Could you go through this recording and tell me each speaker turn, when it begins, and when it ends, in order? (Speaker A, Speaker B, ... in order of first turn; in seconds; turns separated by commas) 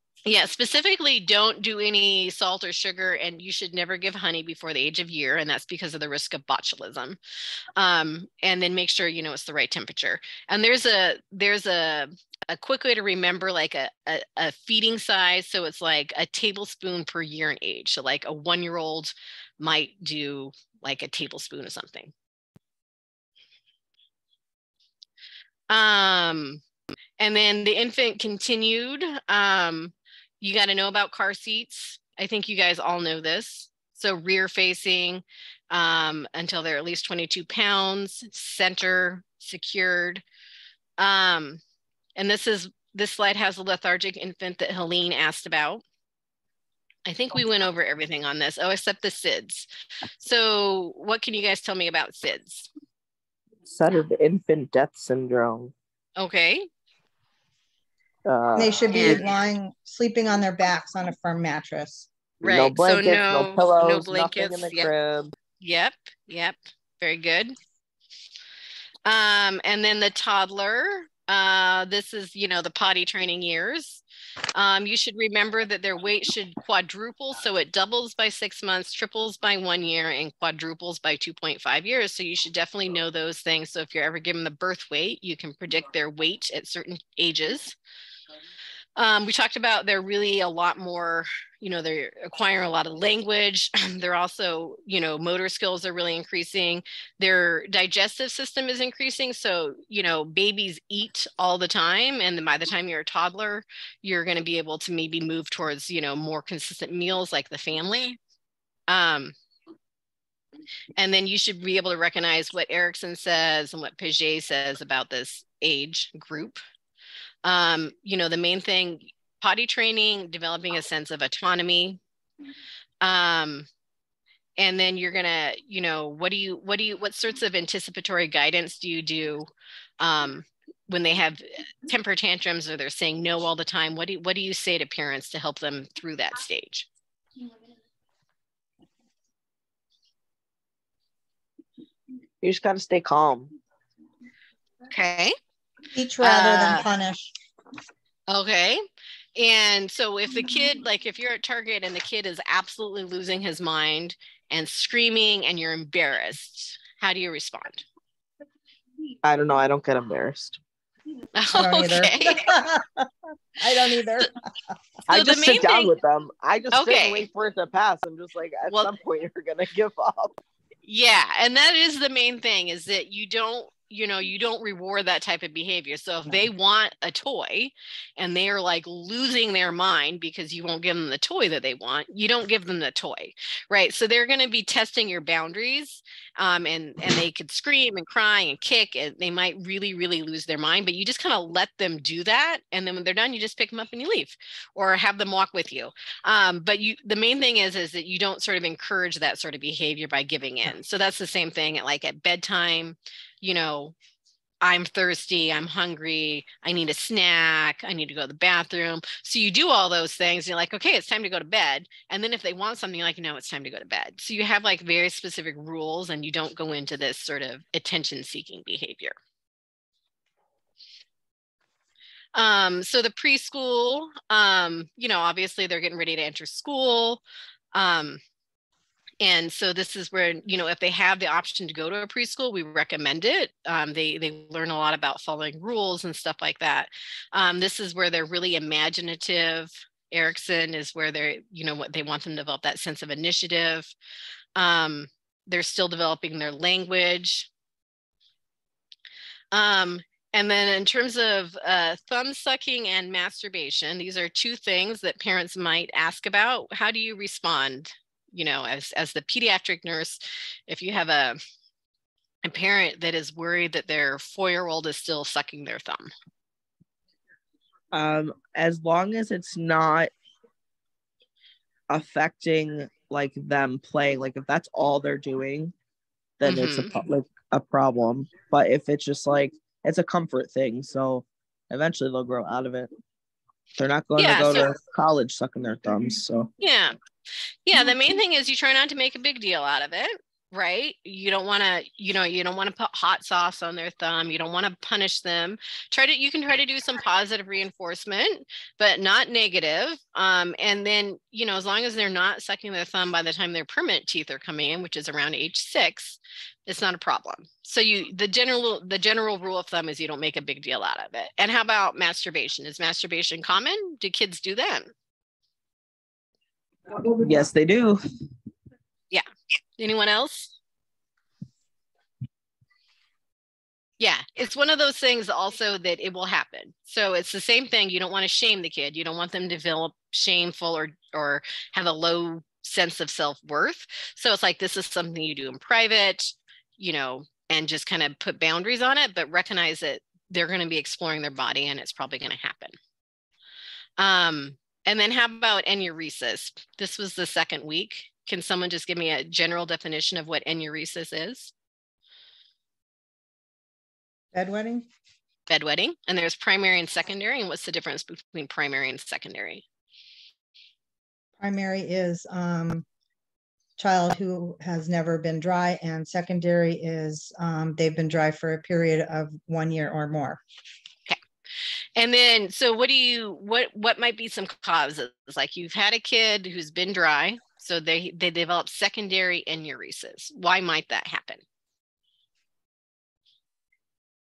Speaker A: 0.3-7.2, Speaker A: 7.8-22.1, Speaker A: 25.7-26.6, Speaker A: 27.2-40.2, Speaker A: 41.0-41.6, Speaker A: 42.2-45.8, Speaker A: 47.1-49.7, Speaker A: 50.2-52.7, Speaker B: 53.6-55.7, Speaker A: 56.2-56.7, Speaker B: 58.2-59.2, Speaker C: 58.5-62.1, Speaker A: 58.9-59.3, Speaker A: 62.4-64.9, Speaker B: 62.4-65.3, Speaker A: 65.6-67.6, Speaker A: 69.0-74.0, Speaker A: 74.5-87.8, Speaker A: 89.0-108.2, Speaker A: 108.9-109.3, Speaker A: 111.0-116.6, Speaker A: 117.5-122.0, Speaker A: 123.0-123.7, Speaker A: 124.6-129.5, Speaker A: 130.0-136.9, Speaker B: 142.4-143.6, Speaker A: 144.9-145.3, Speaker C: 145.9-147.3, Speaker A: 146.2-146.9, Speaker A: 148.3-148.8, Speaker A: 149.4-157.8, Speaker B: 159.2-160.6, Speaker A: 161.3-162.5, Speaker C: 161.5-164.8, Speaker B: 165.1-170.4, Speaker A: 165.1-165.9, Speaker A: 166.7-167.3, Speaker A: 168.7-168.9, Speaker A: 170.8-203.9, Speaker A: 204.6-219.2, Speaker A: 222.3-227.2, Speaker A: 227.7-228.2, Speaker A: 229.2-243.9, Speaker A: 244.6-247.5, Speaker A: 249.5-261.4, Speaker A: 262.4-266.1, Speaker B: 267.9-270.1, Speaker B: 271.9-275.7, Speaker B: 276.4-282.9, Speaker A: 276.4-277.0, Speaker B: 283.8-286.5, Speaker A: 284.2-284.7, Speaker A: 286.6-286.9, Speaker A: 287.6-314.9, Speaker B: 317.0-318.0, Speaker A: 319.8-320.5, Speaker A: 324.0-342.8, Speaker A: 344.0-351.5, Speaker C: 354.3-354.9, Speaker A: 355.5-359.6, Speaker C: 361.4-362.9, Speaker C: 363.8-370.4, Speaker A: 372.0-381.4